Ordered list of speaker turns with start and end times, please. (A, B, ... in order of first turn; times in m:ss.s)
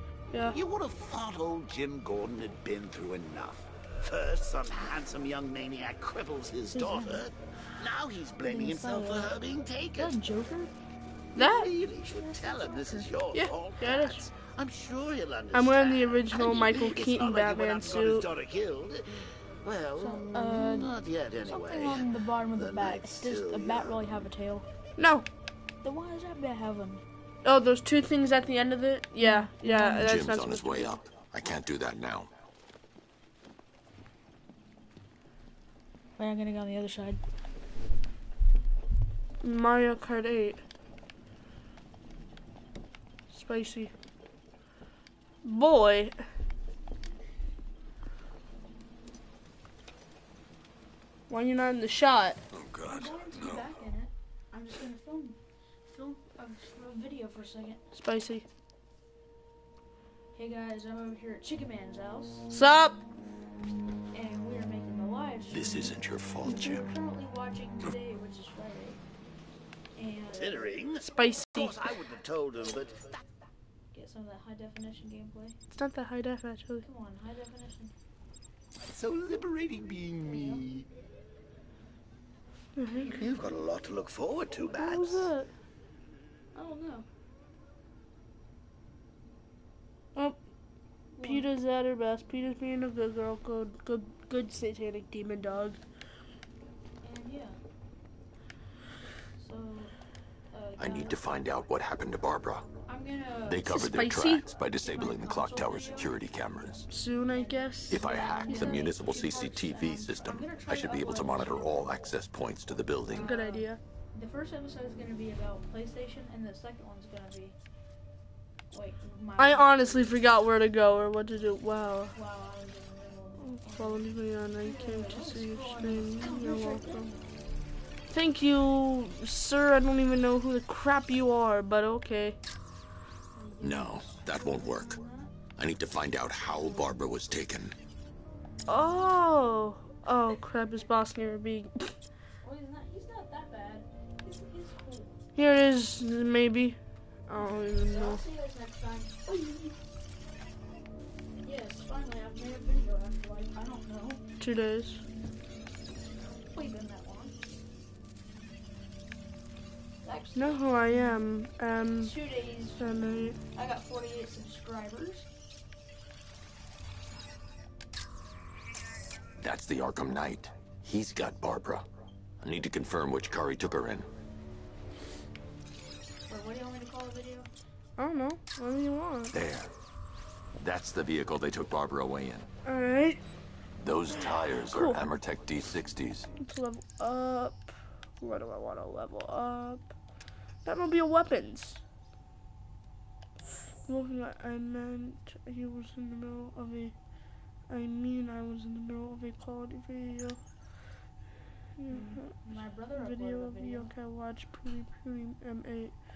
0:00.4-0:10.2 A
0:06.7-0:07.2 B
0:08.4-0:09.4 B
0:10.0-0:10.7 B
0:11.4-0:24.2 A
0:11.4-0:11.7 C
0:12.1-0:13.1 B
0:13.3-0:14.2 C
0:15.5-0:18.3 C
0:20.0-0:24.7 B
0:25.0-0:25.3 C
0:25.8-0:27.0 B
0:27.4-0:31.0 C
0:29.2-0:30.2 B
0:30.0-0:32.3 D
0:36.2-0:37.2 B
0:39.4-0:40.6 C
0:43.3-0:43.9 C
0:45.4-0:46.2 C
0:51.3-0:52.4 C
0:52.5-0:53.7 D
0:52.8-0:57.8 B
0:58.0-0:58.4 C
1:00.3-1:02.5 B
1:02.5-1:03.0 C
1:04.1-1:09.0 B
1:05.5-1:06.9 D
1:10.0-1:10.8 B
1:10.3-1:13.1 A
1:11.0-1:11.8 C
1:13.9-1:15.6 B
1:15.7-1:16.9 C
1:16.8-1:17.9 B
1:18.8-1:20.9 A
1:20.2-1:20.6 B
1:22.8-1:23.3 C
1:23.2-1:25.3 A
1:24.7-1:25.5 C
1:26.5-1:27.1 B
1:31.2-1:31.5 B
1:31.2-1:35.8 C
1:37.0-1:37.6 B
1:39.4-1:39.9 B
1:40.5-1:41.4 B
1:40.8-1:42.7 D
1:42.9-1:43.8 B
1:43.5-1:46.9 D
1:43.7-1:44.5 C
1:44.8-1:46.2 B
1:46.9-1:48.8 C
1:47.2-1:52.0 B
1:47.9-1:53.3 D
1:53.1-1:57.6 B
1:53.1-1:53.8 C
1:58.7-2:00.2 B
1:59.4-2:02.1 C
2:02.1-2:07.2 B
2:03.4-2:07.1 C
2:08.1-2:12.4 C
2:13.4-2:15.4 B
2:13.6-2:15.0 D
2:15.6-2:17.8 D
2:16.5-2:16.9 B
2:18.7-2:21.9 C
2:22.4-2:25.2 B
2:25.4-2:28.2 C
2:27.8-2:29.8 B
2:31.4-2:34.2 B
2:34.4-2:35.0 C
2:36.2-2:37.4 B
2:40.0-2:41.2 B
2:40.4-2:42.1 C
2:42.0-2:45.3 B
2:42.8-2:43.4 C
2:49.4-2:51.9 D
2:52.4-2:54.1 D
2:56.3-2:57.5 B
2:58.0-2:59.4 C
2:59.3-2:59.7 D
3:00.6-3:02.5 D
3:02.6-3:03.2 C
3:03.8-3:06.3 D
3:04.7-3:05.0 C
3:06.4-3:09.9 C
3:10.6-3:11.8 C
3:13.9-3:16.9 C
3:17.7-3:20.4 C
3:21.8-3:22.4 C
3:21.9-3:23.9 B
3:23.0-3:25.9 C